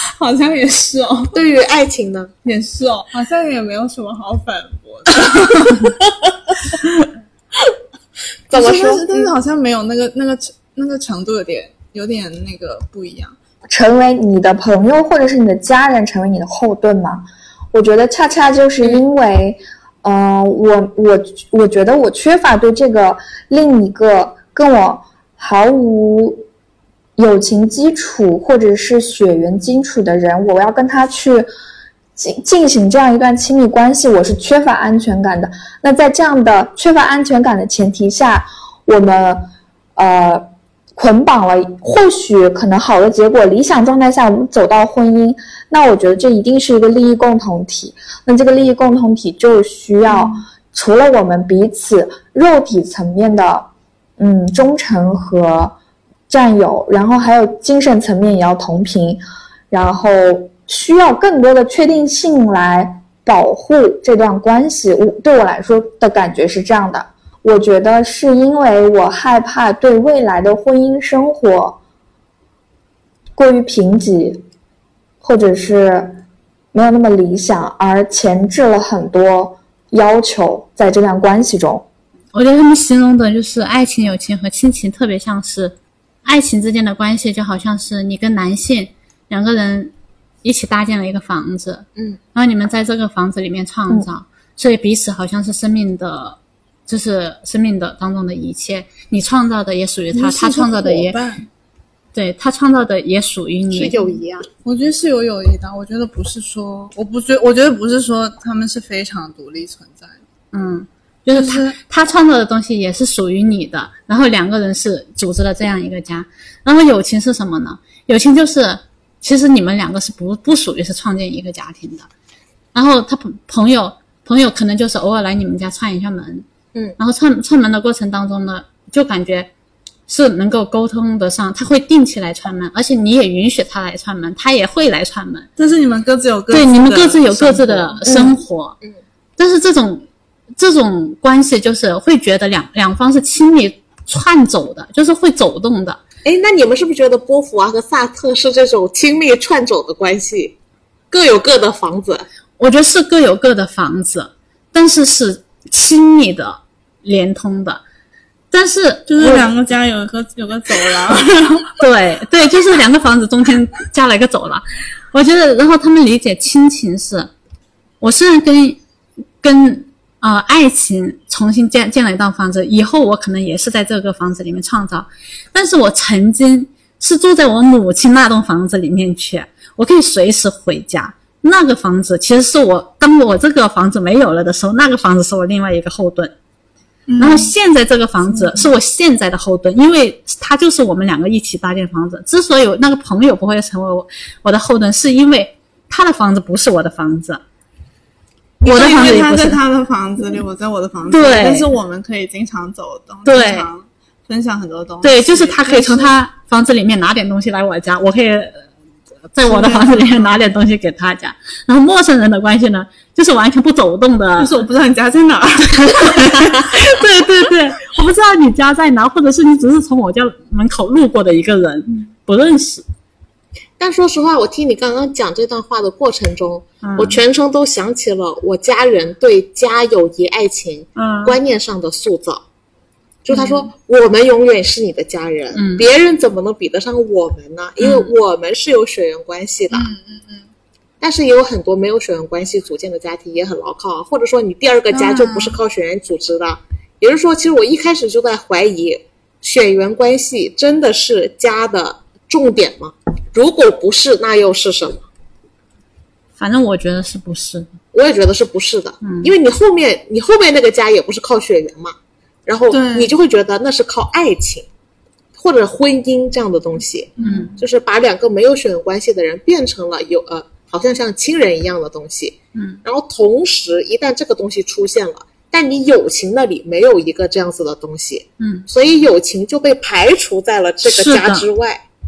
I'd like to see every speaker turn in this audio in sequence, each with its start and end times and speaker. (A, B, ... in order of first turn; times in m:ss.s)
0:00.2-0:01.4 A
0:01.3-0:02.3 B
0:02.4-0:05.9 A
0:08.5-0:09.3 B
0:08.5-0:13.4 A
0:13.7-0:26.4 C
0:27.2-0:31.5 C
0:32.2-0:55.8 C
0:56.3-1:11.8 C
1:13.4-1:14.4 C
1:15.2-1:16.2 C
1:16.7-1:21.8 C
1:22.3-1:29.9 D
1:30.4-1:41.2 D
1:40.1-1:41.5 A
1:42.1-1:44.0 D
1:43.7-1:44.5 B
1:44.6-1:50.2 A
1:50.5-2:02.1 D
1:51.3-1:51.8 A
2:02.7-2:06.5 D
2:07.0-2:09.5 D
2:10.1-2:15.5 D
2:15.6-2:18.2 A
2:16.5-2:18.8 D
2:18.1-2:18.3 C
2:19.4-2:20.0 D
2:20.6-2:26.0 D
2:26.2-2:30.6 B
2:31.1-2:32.3 B
2:32.6-2:37.8 D
2:38.5-2:39.5 D
2:39.1-2:41.8 A
2:41.8-2:47.3 D
2:48.0-2:48.8 D
2:49.4-3:06.3 D
3:07.1-3:07.5 A
3:07.2-3:17.4 D
3:08.4-3:08.6 A
3:18.6-3:26.1 A
3:18.6-3:19.6 D
3:21.1-3:21.7 D
3:23.2-3:23.7 D
3:25.0-3:28.7 D
3:29.3-3:34.6 D
3:29.4-3:30.3 A
3:34.4-3:36.7 A
3:35.9-3:42.8 D
3:43.8-3:52.4 B
3:46.8-3:47.2 D
3:51.0-3:51.4 D
3:53.2-3:59.9 B
3:55.5-3:55.9 D
3:59.7-4:00.5 A
4:01.0-4:15.1 B
4:04.9-4:05.6 A
4:16.4-4:17.7 D
4:17.9-4:22.0 B
4:19.0-4:19.3 D
4:22.5-4:24.7 B
4:22.7-4:23.1 A
4:25.4-4:41.8 B
4:27.2-4:27.5 A
4:27.2-4:27.6 D
4:32.6-4:32.8 D
4:38.4-4:38.7 D
4:40.8-4:41.5 D